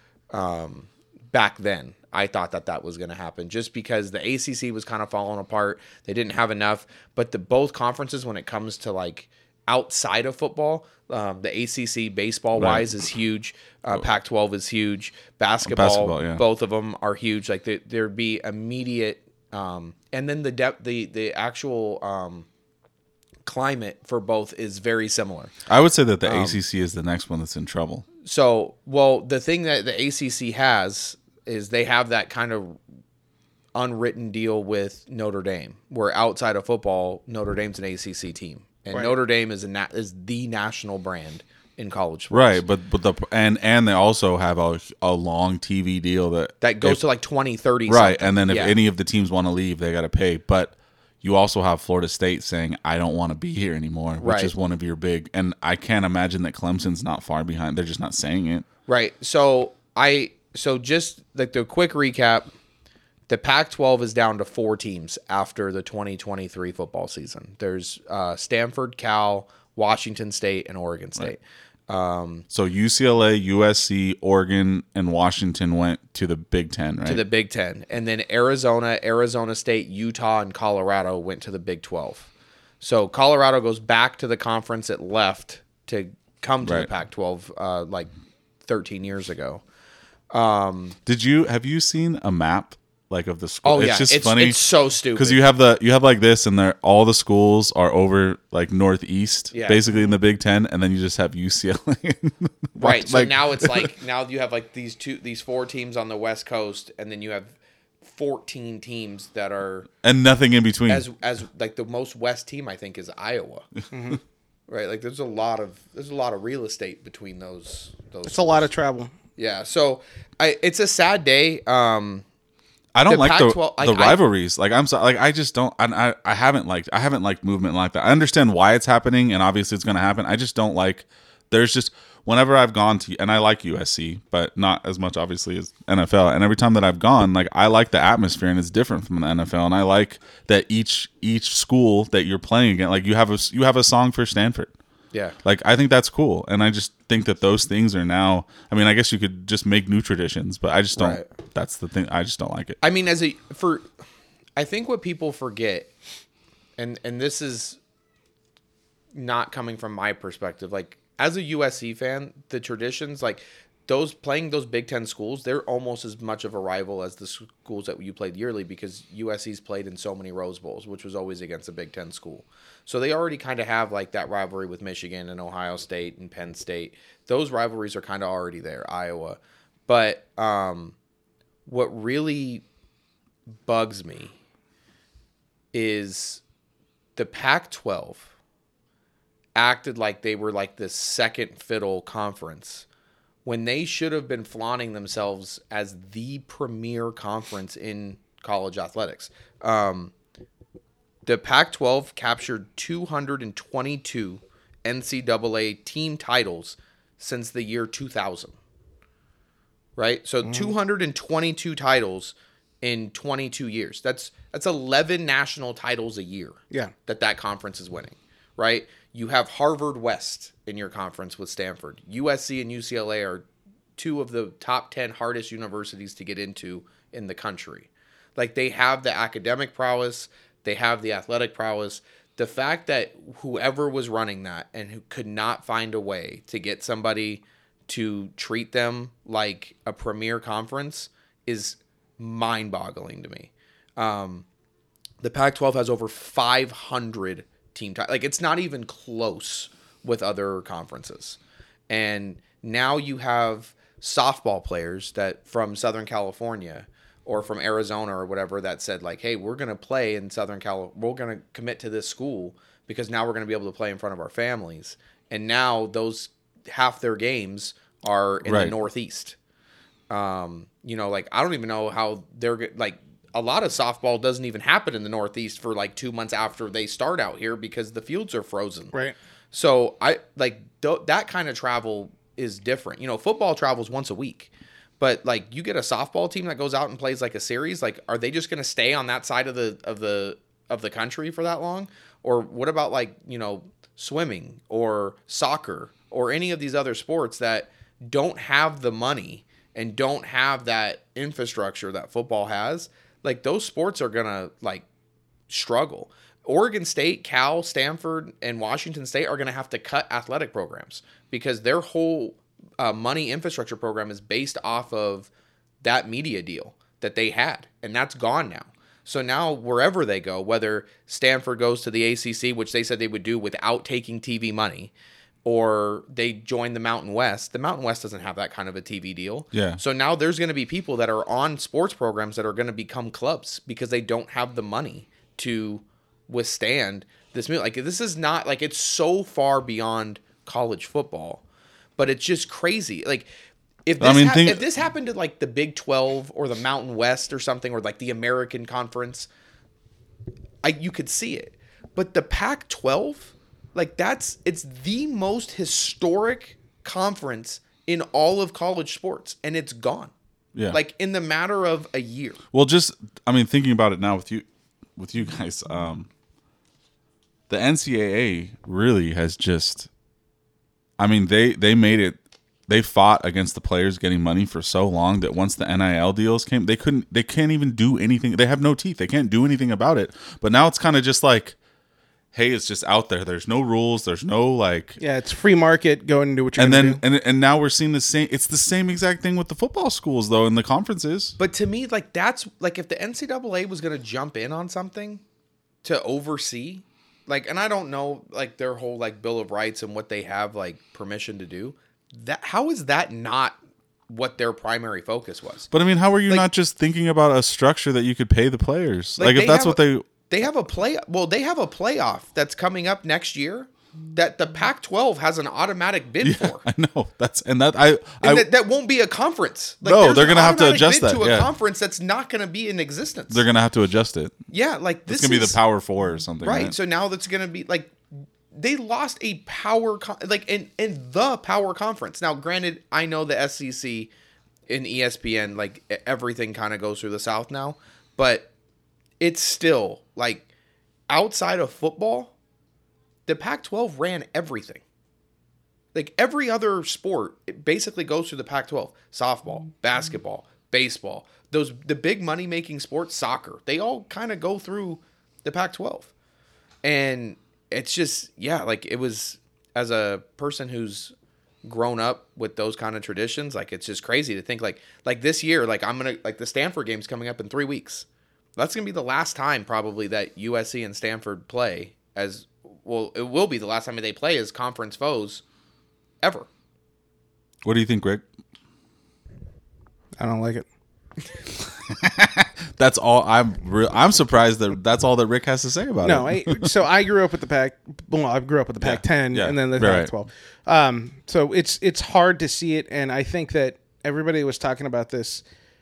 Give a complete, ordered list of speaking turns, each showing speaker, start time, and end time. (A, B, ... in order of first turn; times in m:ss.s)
0:00.3-0:22.4 A
0:12.6-0:12.9 B
0:15.6-0:16.4 B
0:23.4-0:25.5 A
0:25.7-0:28.0 B
0:26.2-0:26.6 A
0:28.2-0:32.8 A
0:33.7-0:42.6 A
0:42.3-0:47.0 B
0:46.6-0:48.8 A
0:47.9-0:58.6 B
0:54.2-0:54.5 A
0:58.9-1:02.5 A
1:03.3-1:12.4 A
1:12.5-1:17.2 B
1:17.0-1:22.3 A
1:22.8-1:28.1 A
1:28.6-1:29.6 A
1:30.3-1:31.0 A
1:31.0-1:34.6 B
1:33.6-1:35.4 A
1:35.1-1:43.9 B
1:39.5-1:39.8 A
1:42.8-1:47.5 A
1:48.0-1:49.9 A
1:50.0-1:51.0 B
1:50.9-1:53.7 A
1:53.9-1:54.2 C
1:54.7-1:58.7 A
1:58.2-1:59.1 C
1:59.4-2:02.2 A
2:02.9-2:24.7 B
2:03.0-2:04.2 A
2:25.4-2:32.8 B
2:31.0-2:31.2 A
2:32.8-2:33.8 A
2:34.6-2:35.9 A
2:36.8-2:37.8 A
2:39.1-3:00.9 A
3:01.6-3:02.6 A
3:03.6-3:04.3 A
3:05.7-3:06.4 A
3:07.2-3:08.2 A
3:09.6-3:12.8 A
3:13.4-3:20.1 A
3:21.2-3:28.6 A
3:30.0-3:43.4 A
3:30.4-3:30.7 C
3:44.0-4:04.4 A
4:05.2-4:11.4 A
4:11.9-4:29.4 A
4:28.4-4:28.7 B
4:30.1-4:38.9 A
4:39.5-5:04.8 A
5:05.5-5:15.3 A
5:15.8-5:24.9 A
5:25.4-5:41.4 A
5:29.5-5:29.8 B
5:42.0-5:43.3 A
5:43.8-5:49.3 A
5:44.0-5:44.6 B
5:50.6-6:00.1 A
6:00.7-6:02.4 A
6:02.5-6:04.4 B
6:05.0-6:06.1 B
6:07.5-6:09.9 B
6:11.0-6:21.6 B
6:22.3-6:25.0 B
6:25.0-6:27.0 C
6:26.6-6:31.4 B
6:31.4-6:35.2 A
6:35.8-6:43.6 A
6:44.1-6:45.7 A
6:45.7-6:50.1 B
6:49.2-6:56.6 A
6:56.2-6:58.5 B
6:58.2-7:03.4 A
6:59.8-7:01.5 B
7:03.3-7:04.4 B
7:04.5-7:05.6 A
7:05.1-7:06.7 B
7:06.4-7:07.9 A
7:08.5-7:14.1 A
7:14.7-7:18.5 A
7:19.2-7:20.4 A
7:21.1-7:22.3 A
7:23.3-7:24.8 A
7:25.9-7:36.1 A
7:36.8-7:41.1 A
7:41.6-7:48.0 A
7:48.6-7:55.4 A
7:56.2-7:56.5 A
7:57.6-7:58.2 B
8:00.2-8:00.6 C
8:01.7-8:06.7 B
8:06.0-8:15.4 C
8:08.8-8:10.1 B